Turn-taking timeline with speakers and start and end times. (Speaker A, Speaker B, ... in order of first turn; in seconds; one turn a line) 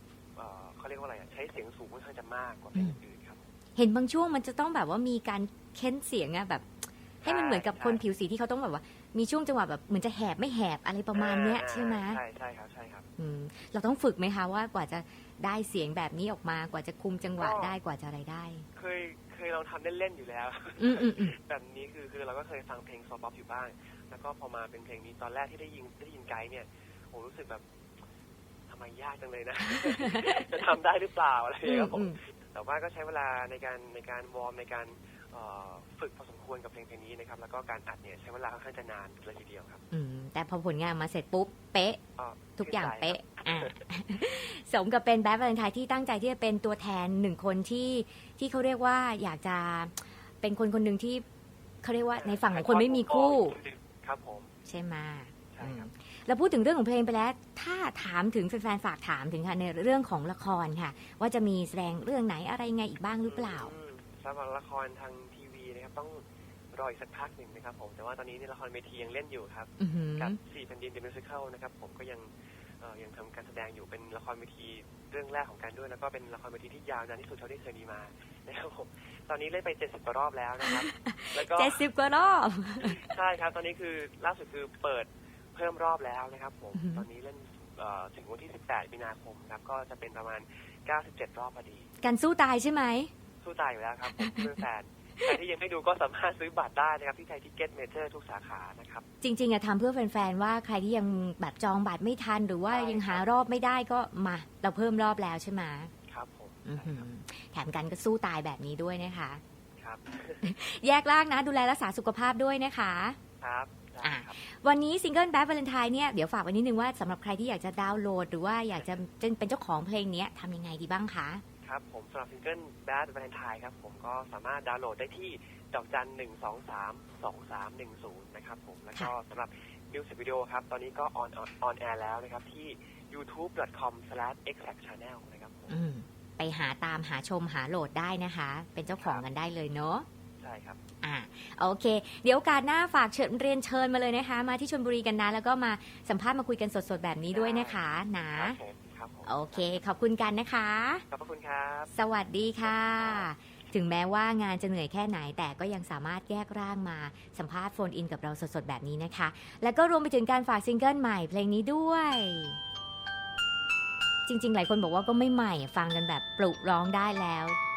Speaker A: 0.3-3.4
Speaker B: 3.8-12.2
Speaker A: 7.2-8.0
Speaker A: 11.1-13.1
Speaker B: 13.2-18.7
Speaker A: 17.4-17.7
Speaker A: 18.7-27.6
Speaker B: 20.8-21.4
Speaker A: 28.7-39.8
Speaker B: 31.6-32.2
Speaker B: 39.9-42.0
Speaker A: 42.2-43.8
Speaker B: 42.6-51.2
Speaker B: 51.8-53.6
Speaker A: 52.1-54.5
Speaker B: 54.6-63.7
Speaker A: 55.5-55.9
Speaker A: 63.2-81.9
Speaker B: 69.8-70.4
Speaker B: 80.6-83.1
Speaker A: 82.8-91.9
Speaker B: 86.7-87.1
Speaker B: 92.0-93.1
Speaker A: 93.4-99.0
Speaker B: 94.1-94.5
Speaker B: 99.2-105.9
Speaker A: 102.7-103.3
Speaker A: 106.1-107.1
Speaker B: 106.7-109.4
Speaker A: 109.8-110.5
Speaker B: 110.4-113.2
Speaker A: 113.4-114.3
Speaker B: 114.0-121.4
Speaker A: 121.6-135.8
Speaker B: 135.7-140.1
Speaker A: 138.9-139.2
Speaker A: 140.4-140.8
Speaker B: 141.0-148.6
Speaker A: 147.3-147.8
Speaker A: 148.3-149.8
Speaker B: 149.2-151.0
Speaker A: 151.1-151.9
Speaker B: 151.9-162.6
Speaker A: 152.4-153.3
Speaker B: 164.2-167.6